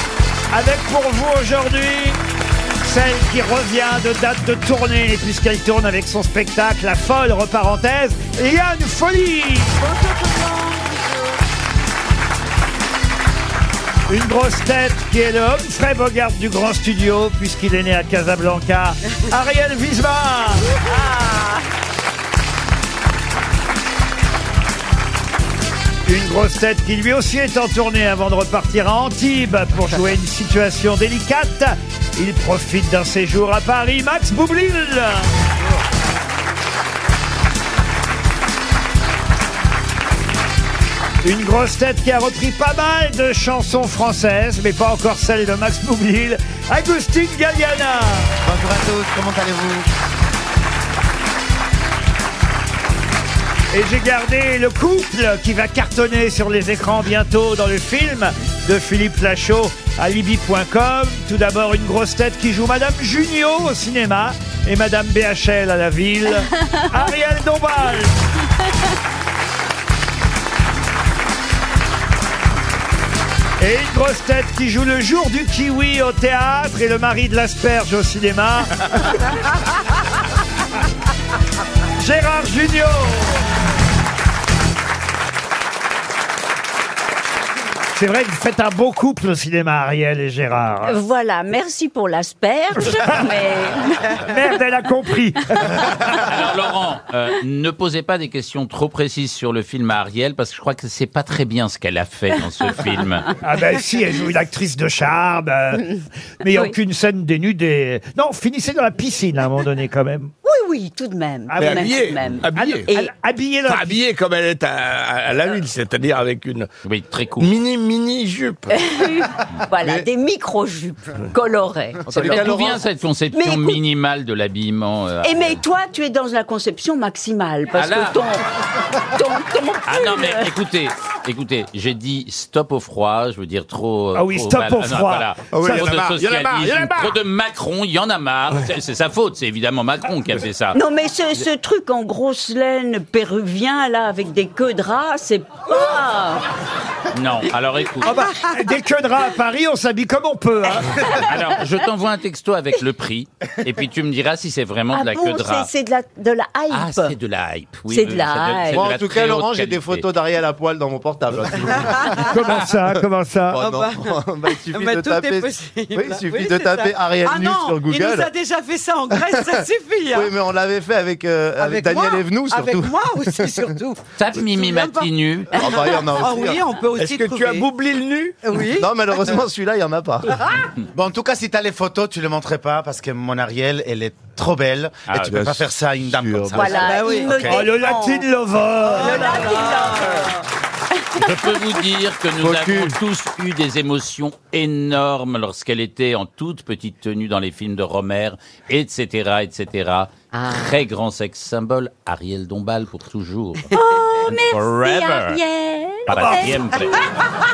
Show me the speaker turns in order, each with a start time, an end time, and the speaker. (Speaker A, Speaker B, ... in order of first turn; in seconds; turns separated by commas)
Speaker A: 0.5-2.2, Speaker A: 2.8-9.8, Speaker B: 9.8-11.2, Speaker A: 14.1-20.7, Speaker A: 26.1-35.3, Speaker A: 41.2-48.3, Speaker C: 48.4-49.9, Speaker A: 53.7-68.1, Speaker A: 73.6-78.9, Speaker A: 82.0-83.4, Speaker A: 88.0-91.0, Speaker D: 90.9-94.2, Speaker A: 94.2-95.7, Speaker E: 96.1-103.3, Speaker A: 103.4-105.8, Speaker A: 106.4-110.3, Speaker D: 110.4-113.1, Speaker A: 111.5-112.0, Speaker F: 111.5-112.9, Speaker A: 112.5-114.0, Speaker F: 113.7-116.7, Speaker E: 116.9-117.5, Speaker F: 117.4-118.7, Speaker D: 118.7-122.5, Speaker G: 119.8-120.1, Speaker G: 122.1-122.8, Speaker E: 122.1-125.6, Speaker D: 123.3-123.8, Speaker D: 125.2-128.4, Speaker E: 127.8-128.2, Speaker D: 129.0-130.5, Speaker E: 129.9-140.8, Speaker A: 134.2-136.1, Speaker F: 135.5-137.2, Speaker D: 140.7-146.4, Speaker E: 147.1-148.2, Speaker A: 148.0-151.2, Speaker E: 151.2-155.7, Speaker D: 154.9-157.1, Speaker E: 156.7-160.1, Speaker D: 157.9-158.9, Speaker G: 158.7-162.3, Speaker B: 161.9-162.2, Speaker A: 162.3-163.6, Speaker G: 163.5-168.3, Speaker B: 163.6-170.4, Speaker G: 170.1-173.0, Speaker B: 171.6-177.7, Speaker E: 174.2-175.8, Speaker G: 175.6-176.6, Speaker F: 177.0-178.4, Speaker B: 178.4-179.4, Speaker G: 178.6-180.4, Speaker C: 180.9-187.3, Speaker E: 185.1-185.4, Speaker G: 185.3-186.7, Speaker D: 186.6-188.2, Speaker B: 186.8-187.4, Speaker A: 187.4-189.4, Speaker B: 188.8-190.4, Speaker D: 189.0-190.3, Speaker E: 191.2-203.7, Speaker C: 192.4-192.7, Speaker D: 203.7-207.0, Speaker E: 204.3-205.4, Speaker E: 206.1-207.0, Speaker A: 206.1-206.5